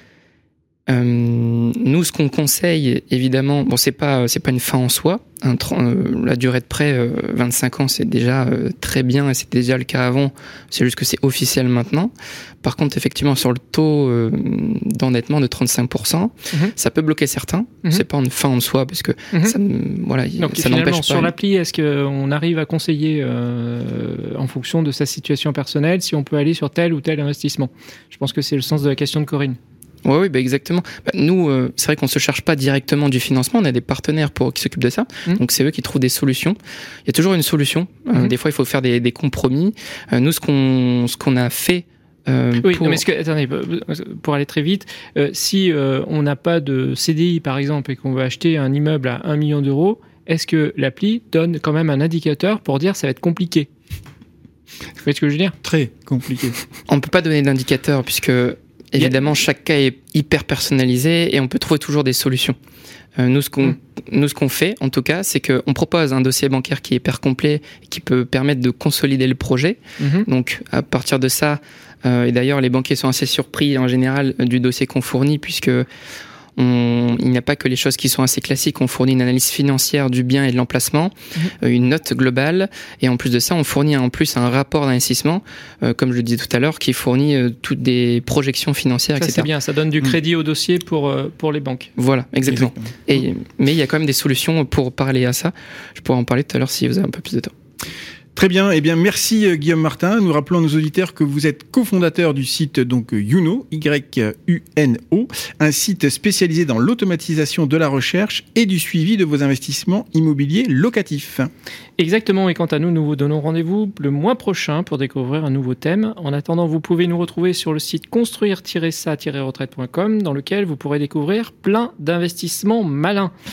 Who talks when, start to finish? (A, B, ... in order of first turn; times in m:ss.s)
0:00.9-0:21.3 A
0:20.4-0:29.6 B
0:30.0-0:43.0 A
0:42.6-0:53.7 B
0:55.0-0:55.6 B
0:55.6-0:56.6 C
0:56.9-1:02.6 A
1:03.2-1:15.9 A
1:10.0-1:10.3 B
1:16.6-1:29.5 A
1:29.2-1:31.9 B
1:32.0-1:37.5 A
1:32.5-1:32.9 C
1:38.4-1:51.5 C
1:52.0-2:03.3 B